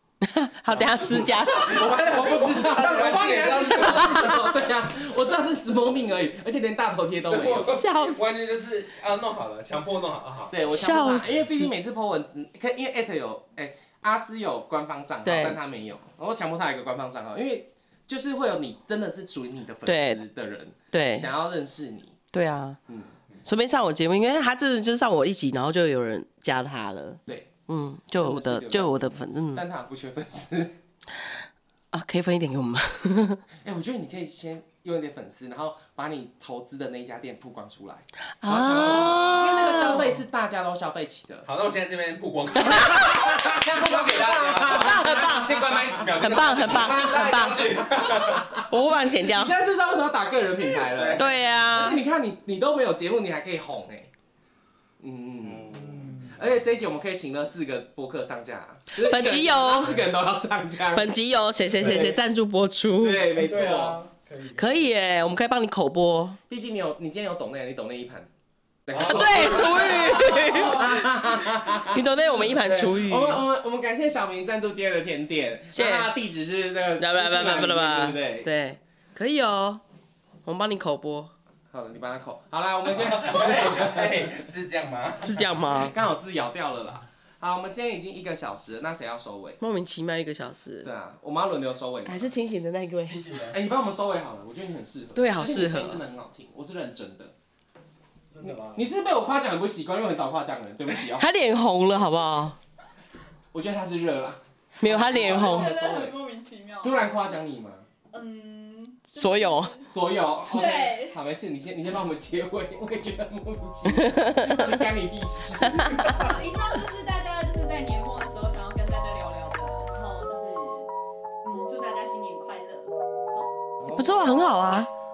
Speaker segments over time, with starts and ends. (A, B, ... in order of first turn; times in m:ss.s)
0:00.2-0:01.9 A
0:00.7-0:07.8 B
0:01.7-0:04.4 C
0:02.8-0:03.8 D
0:03.8-0:04.5 A
0:07.3-0:10.5 C
0:07.7-0:08.3 A
0:10.5-0:22.2 B
0:10.7-0:11.7 A
0:15.2-0:15.6 A
0:19.8-0:20.2 A
0:20.9-0:21.3 A
0:22.3-0:22.8 A
0:22.9-0:23.1 B
0:23.4-0:29.6 A
0:28.2-0:29.0 B
0:29.5-0:30.8 B
0:31.9-0:33.4 A
0:33.6-0:41.5 B
0:38.4-0:40.2 A
0:41.4-0:48.5 C
0:42.6-0:43.1 A
0:42.6-0:48.6 B
0:44.6-0:47.8 A
0:48.7-0:49.5 A
0:49.2-0:54.1 B
0:50.8-0:51.3 C
0:51.2-0:52.0 A
0:55.0-1:01.1 B
0:55.7-0:56.4 D
0:58.9-0:59.9 A
1:00.9-1:03.3 A
1:01.8-1:02.2 D
1:03.0-1:04.0 B
1:03.3-1:04.8 D
1:04.5-1:06.4 A
1:06.5-1:08.3 B
1:08.9-1:18.5 B
1:09.0-1:11.2 A
1:09.2-1:09.4 C
1:11.9-1:13.4 A
1:15.7-1:16.1 A
1:17.0-1:19.8 A
1:20.4-1:21.3 A
1:21.7-1:24.3 B
1:22.9-1:25.4 C
1:25.2-1:25.9 A
1:25.6-1:29.6 B
1:29.6-1:30.9 A
1:30.8-1:32.3 B
1:32.0-1:33.2 A
1:33.0-1:33.6 C
1:33.5-1:37.3 B
1:35.2-1:36.0 A
1:38.3-1:38.8 D
1:38.4-1:41.2 B
1:41.1-1:42.6 A
1:43.5-1:46.1 B
1:44.8-1:45.8 A
1:45.1-1:47.0 E
1:46.8-1:47.9 B
1:48.1-1:49.9 E
1:49.1-1:49.8 A
1:49.9-1:56.3 B
1:50.4-1:51.2 E
1:53.9-1:54.8 A
1:55.6-1:56.2 A
1:56.1-2:00.9 E
2:01.4-2:03.5 E
2:03.8-2:04.2 B
2:03.9-2:04.9 A